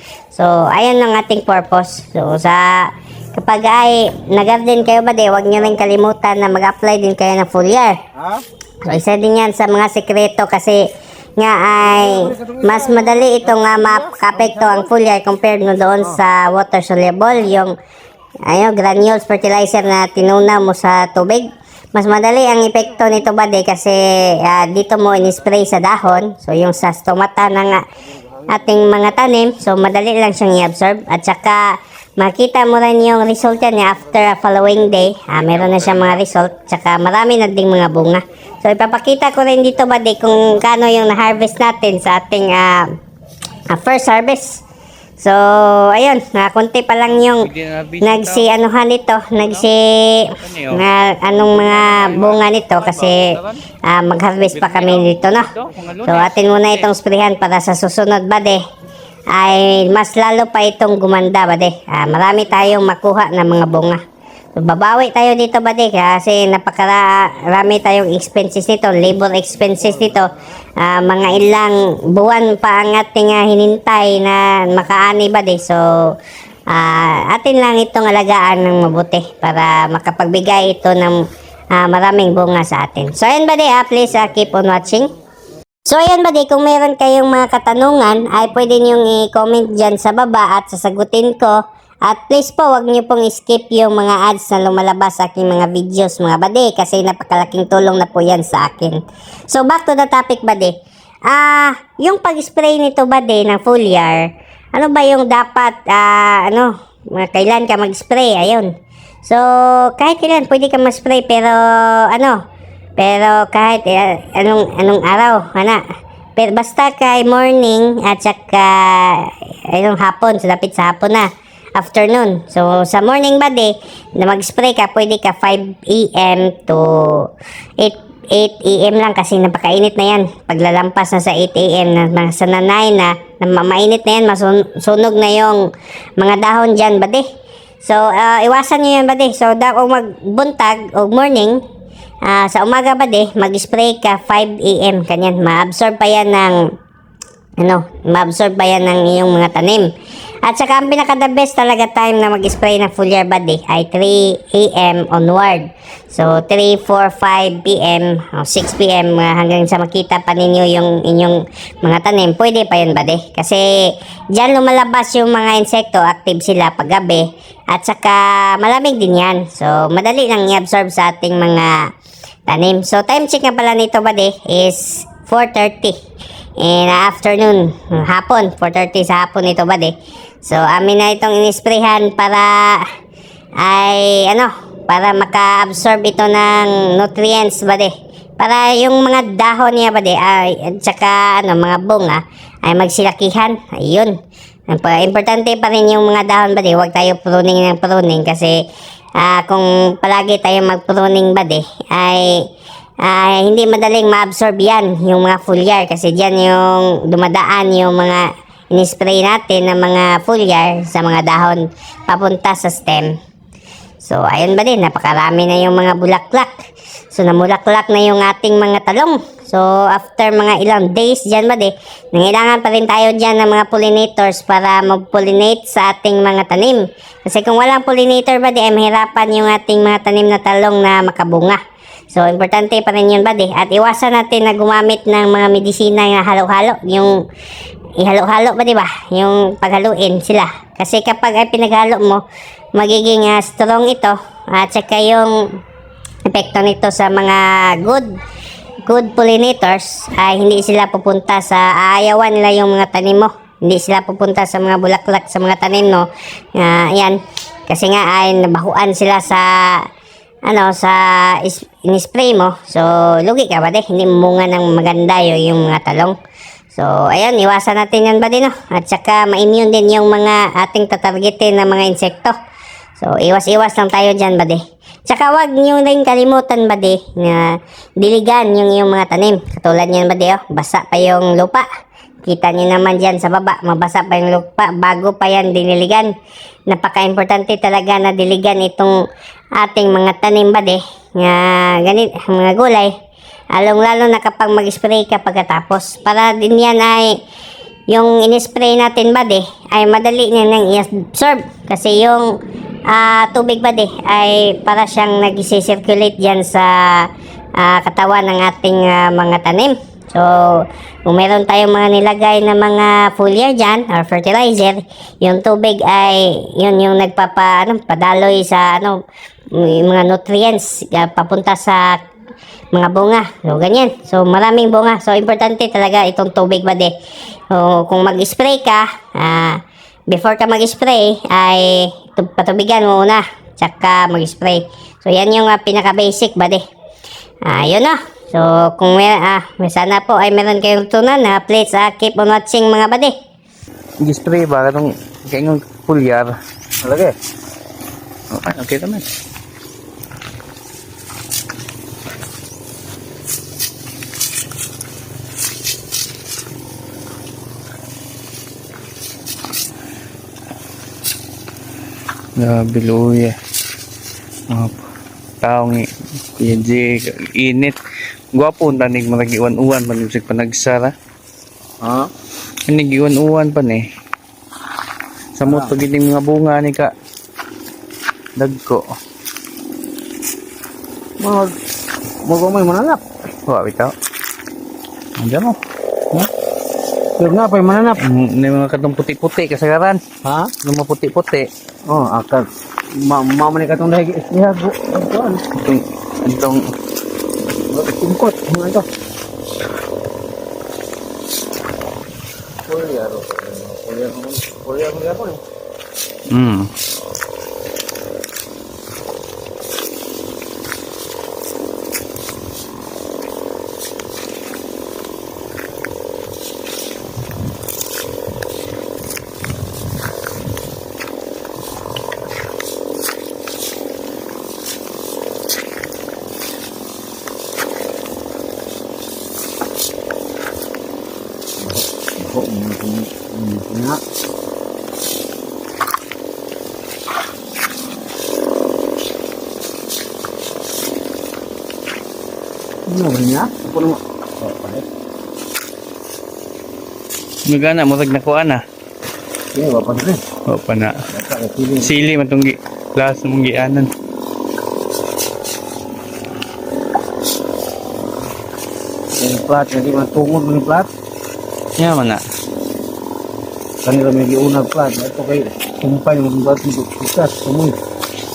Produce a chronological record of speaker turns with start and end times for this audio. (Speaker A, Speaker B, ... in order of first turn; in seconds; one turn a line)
Speaker A: 0.3-8.0
Speaker B: 8.2-8.4
Speaker A: 8.8-10.8
Speaker A: 11.4-17.7
Speaker B: 11.8-14.9
Speaker A: 18.5-27.8
Speaker A: 28.5-42.9
Speaker C: 35.5-36.2
Speaker A: 43.7-44.6
Speaker A: 45.2-47.5
Speaker C: 47.4-48.6
Speaker A: 48.0-53.3
Speaker C: 49.4-49.7
Speaker C: 50.3-50.8
Speaker C: 51.4-53.6
Speaker A: 53.9-55.5
Speaker C: 54.5-56.9
Speaker A: 56.0-58.6
Speaker A: 59.3-64.0
Speaker A: 64.5-76.1
Speaker A: 76.7-81.2
Speaker A: 81.7-85.1
Speaker A: 85.9-91.5
Speaker A: 92.1-100.7
Speaker A: 101.3-108.7
Speaker A: 109.2-112.4
Speaker A: 113.0-115.8
Speaker A: 116.4-127.3
Speaker A: 127.8-135.6
Speaker A: 136.2-137.2
Speaker A: 137.8-141.6
Speaker A: 142.2-146.6
Speaker A: 147.6-149.9
Speaker A: 150.4-171.9
Speaker A: 172.5-175.9
Speaker A: 176.6-179.9
Speaker A: 180.4-182.9
Speaker A: 183.6-194.1
Speaker A: 194.7-198.6
Speaker A: 199.2-202.4
Speaker A: 203.0-213.2
Speaker A: 214.0-216.5
Speaker A: 217.1-231.6
Speaker A: 232.1-237.1
Speaker A: 238.0-242.2
Speaker A: 242.8-245.3
Speaker A: 246.3-248.1
Speaker A: 248.9-256.1
Speaker A: 256.6-259.8
Speaker A: 260.5-266.1
Speaker A: 266.7-272.3
Speaker A: 273.0-281.6
Speaker A: 282.2-286.1
Speaker A: 286.7-288.9
Speaker A: 289.6-292.9
Speaker A: 293.5-297.1
Speaker A: 297.9-302.3
Speaker A: 302.9-307.1
Speaker A: 307.6-319.0
Speaker A: 319.5-322.0
Speaker A: 322.7-326.9
Speaker A: 327.5-336.6
Speaker A: 337.5-343.1
Speaker C: 344.0-346.3
Speaker B: 346.8-347.1
Speaker C: 348.3-349.0
Speaker C: 362.4-363.3
Speaker C: 364.5-364.9
Speaker C: 365.4-365.8
Speaker C: 366.4-367.8
Speaker C: 368.3-370.9
Speaker B: 371.8-372.1
Speaker C: 372.7-373.8
Speaker C: 375.3-376.9
Speaker B: 375.4-375.8
Speaker C: 378.4-378.8
Speaker B: 381.2-381.5
Speaker B: 382.2-383.0
Speaker C: 383.5-383.9
Speaker C: 385.2-385.6
Speaker B: 387.2-388.0
Speaker C: 388.0-390.0
Speaker B: 390.2-390.5
Speaker C: 390.6-391.5
Speaker B: 391.9-395.4
Speaker C: 395.6-396.6
Speaker B: 397.7-398.9
Speaker B: 402.7-405.4
Speaker C: 406.3-406.7
Speaker B: 431.6-434.0
Speaker B: 442.9-444.9
Speaker C: 447.4-448.6
Speaker B: 449.5-450.2
Speaker C: 450.5-451.0
Speaker B: 451.1-451.9
Speaker C: 451.8-453.9
Speaker B: 459.2-460.9
Speaker C: 461.8-462.2
Speaker B: 463.8-467.8